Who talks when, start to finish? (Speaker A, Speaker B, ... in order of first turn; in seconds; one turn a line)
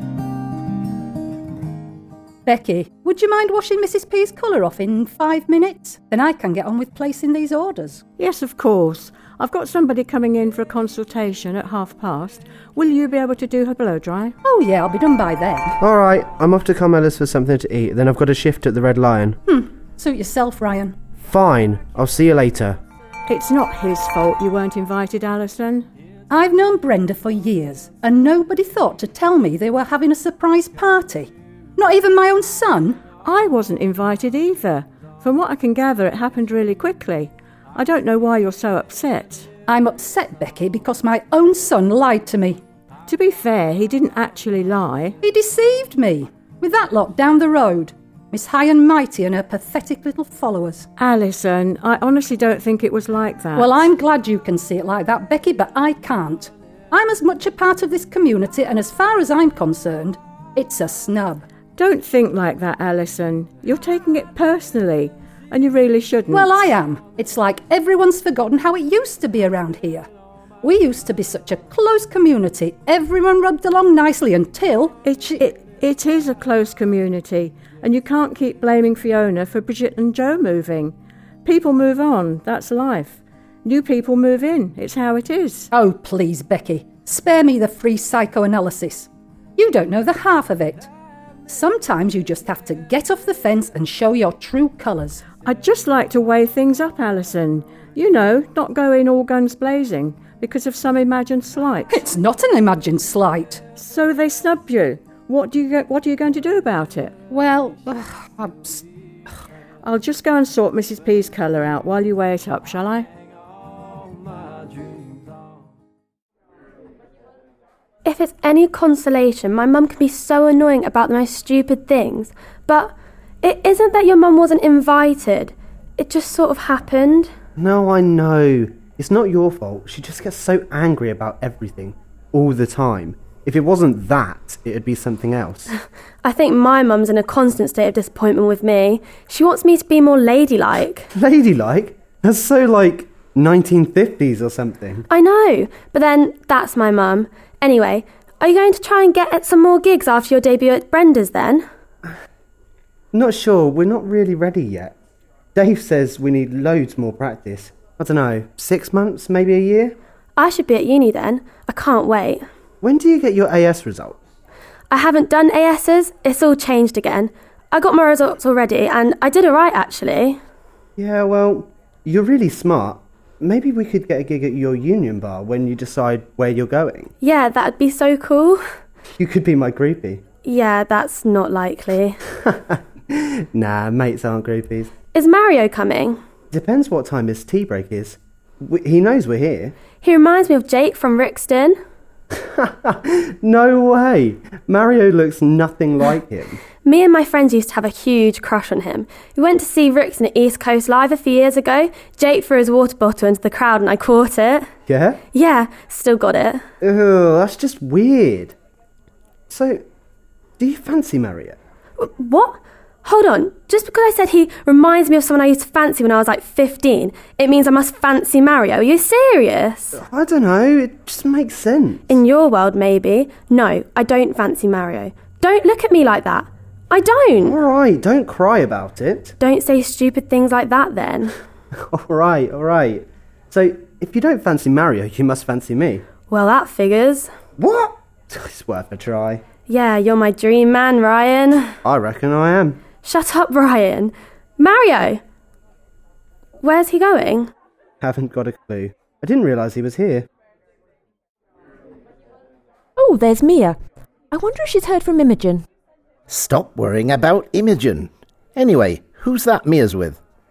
Speaker A: 2.5-8.0
Speaker B: 8.2-14.3
Speaker A: 14.4-15.7
Speaker C: 15.8-19.4
Speaker A: 19.5-20.9
Speaker C: 21.2-22.8
Speaker B: 23.3-25.9
Speaker A: 26.3-33.0
Speaker B: 33.2-39.5
Speaker A: 39.7-42.6
Speaker B: 43.1-45.2
Speaker A: 45.2-50.9
Speaker B: 51.0-53.9
Speaker A: 53.5-61.5
Speaker B: 61.8-66.6
Speaker A: 66.3-70.1
Speaker A: 70.6-75.0
Speaker B: 75.0-80.9
Speaker B: 81.5-85.7
Speaker A: 85.7-90.9
Speaker A: 91.5-95.3
Speaker B: 95.4-102.0
Speaker A: 101.9-103.6
Speaker B: 103.8-107.1
Speaker A: 107.3-108.8
Speaker B: 109.8-113.1
Speaker D: 118.0-127.3
Speaker C: 127.6-135.7
Speaker D: 136.2-141.1
Speaker C: 141.2-145.1
Speaker D: 145.1-151.6
Speaker C: 153.1-154.9
Speaker C: 155.6-159.9
Speaker D: 160.4-162.4
Speaker C: 162.8-164.2
Speaker D: 164.9-170.4
Speaker C: 171.0-177.1
Speaker D: 177.2-178.6
Speaker C: 179.2-180.2
Speaker D: 180.4-182.2
Speaker C: 182.5-184.9
Speaker D: 185.1-186.2
Speaker C: 186.5-189.8
Speaker D: 190.0-191.8
Speaker C: 192.6-196.6
Speaker D: 196.8-204.7
Speaker C: 204.9-205.2
Speaker D: 205.3-206.6
Speaker C: 206.8-208.6
Speaker C: 209.5-209.8
Speaker C: 210.6-211.6
Speaker D: 212.0-220.0
Speaker C: 220.0-222.2
Speaker D: 222.1-227.6
Speaker C: 227.4-229.3
Speaker D: 229.4-231.3
Speaker C: 231.9-236.0
Speaker D: 236.3-237.3
Speaker C: 237.6-239.4
Speaker D: 239.7-241.8
Speaker C: 241.8-242.9
Speaker D: 243.0-245.2
Speaker D: 246.6-247.5
Speaker C: 248.0-250.3
Speaker E: 253.0-253.8
Speaker E: 254.3-255.6
Speaker F: 256.3-260.2